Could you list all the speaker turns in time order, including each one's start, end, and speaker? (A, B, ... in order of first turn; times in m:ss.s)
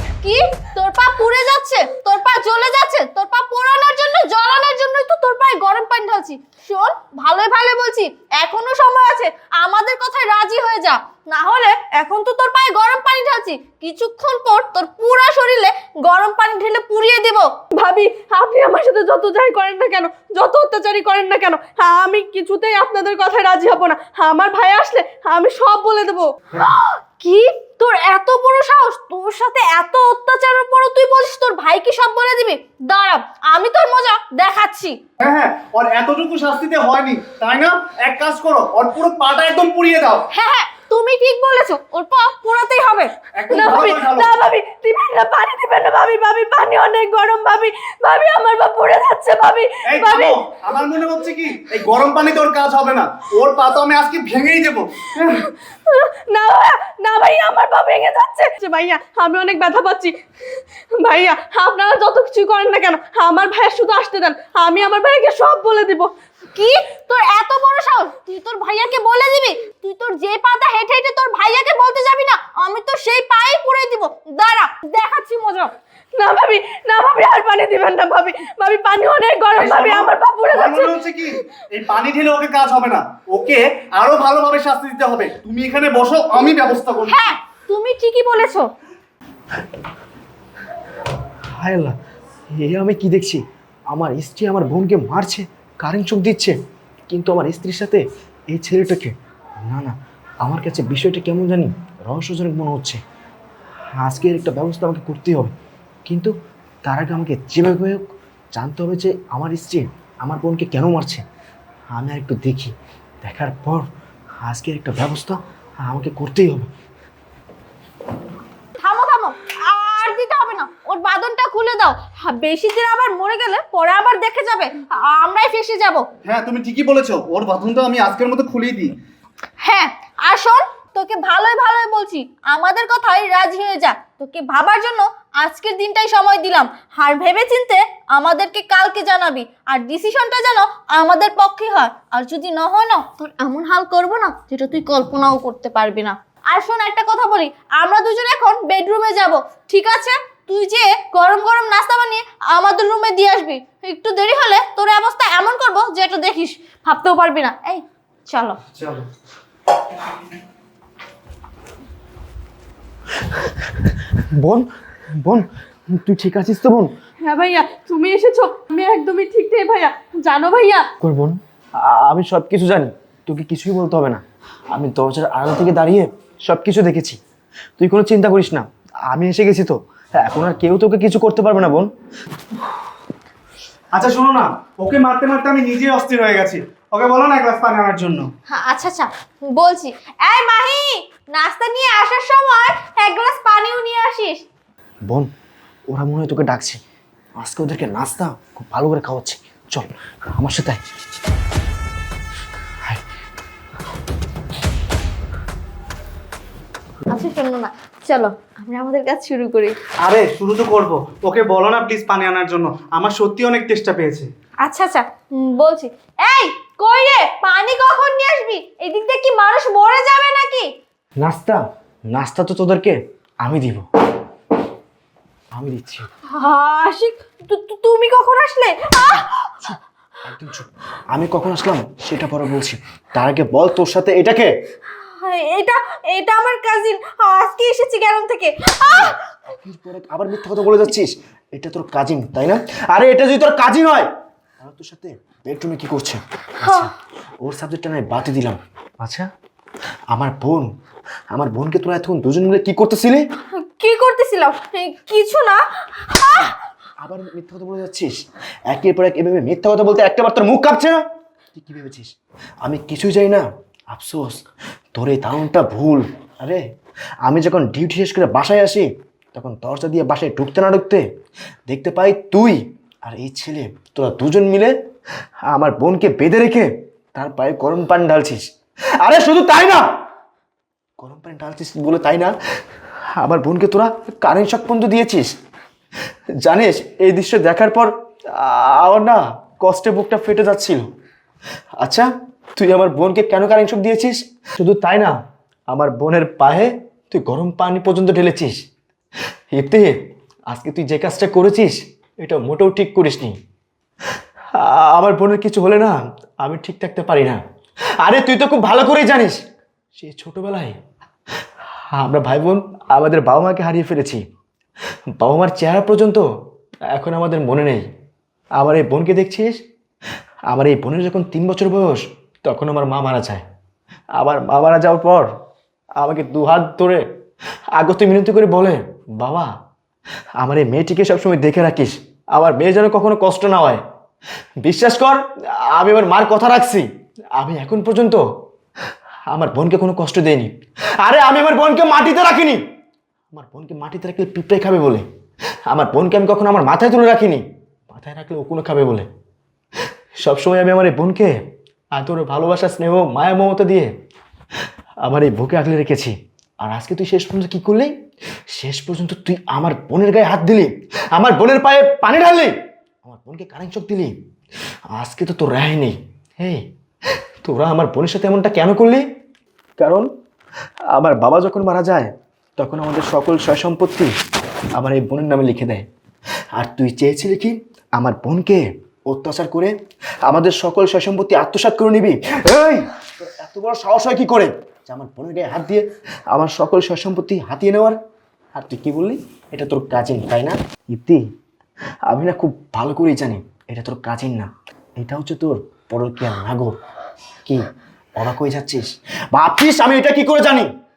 0:00.2-0:17.5 A
0:17.7-0:26.3 B
0:26.8-0:35.0 A
0:35.2-0:40.2 C
0:40.3-0:43.1 A
0:43.3-0:44.3 C
0:43.5-0:50.4 B
0:49.9-0:55.4 C
0:55.3-1:06.1 B
1:06.5-1:15.7 A
1:16.1-1:21.0 B
1:19.5-1:27.2 C
1:27.0-1:28.7 A
1:31.5-1:32.0 D
1:32.5-1:36.5 D
1:37.1-1:43.0 D
1:43.9-1:45.5 D
1:46.0-1:46.3 D
1:46.8-1:51.2 D
1:51.9-1:53.8 D
1:54.4-1:56.7 D
1:58.8-2:06.1 A
2:06.2-2:09.0 C
2:09.6-2:38.6 A
2:38.7-2:39.1 C
2:43.5-2:46.9 D
2:47.2-2:50.9 B
2:51.0-2:57.2 D
2:57.8-3:01.9 D
3:03.9-3:08.3 C
3:08.5-3:14.4 A
3:15.9-3:16.8 D
3:17.4-3:20.8 D
3:27.1-3:29.8 A
3:30.0-3:34.3 C
3:34.6-3:40.7 A
3:41.2-3:43.9 D
3:45.5-3:46.1 D
3:46.3-3:49.7 A
3:50.2-3:54.5 D
3:55.0-3:59.2 A
3:58.9-4:09.3 D
4:06.6-4:06.9 A
4:10.1-4:10.7 D
4:11.3-4:13.2 D
4:13.5-4:16.6 A
4:16.3-4:24.4 D
4:24.9-4:26.6 D
4:27.2-4:31.0 D
4:31.7-4:34.7 D
4:35.5-4:38.4 D
4:39.0-4:39.8 D
4:41.0-4:42.3 D
4:43.2-4:45.3 D
4:46.4-4:50.9 D
4:51.8-4:55.1 D
4:55.7-4:58.6 D
4:59.5-5:00.0 D
5:00.5-5:03.4 D
5:04.1-5:07.4 D
5:08.0-5:09.4 D
5:10.0-5:10.8 D
5:11.9-5:14.2 D
5:15.2-5:16.3 D
5:16.9-5:17.9 D
5:18.5-5:19.6 D
5:20.5-5:23.4 D
5:24.1-5:25.3 D
5:26.0-5:27.0 D
5:27.7-5:29.5 D
5:30.4-5:33.8 D
5:34.6-5:38.2 D
5:39.3-5:42.6 D
5:43.3-5:45.0 D
5:45.7-5:49.1 D
5:50.2-5:51.4 D
5:51.9-5:53.9 D
5:55.0-5:57.9 D
5:58.5-6:04.2 D
6:04.9-6:09.0 D
6:09.8-6:10.1 D
6:10.9-6:14.1 D
6:14.8-6:15.8 D
6:16.5-6:19.7 D
6:20.2-6:28.0 D
6:28.5-6:31.2 D
6:32.1-6:36.8 D
6:38.2-6:40.7 D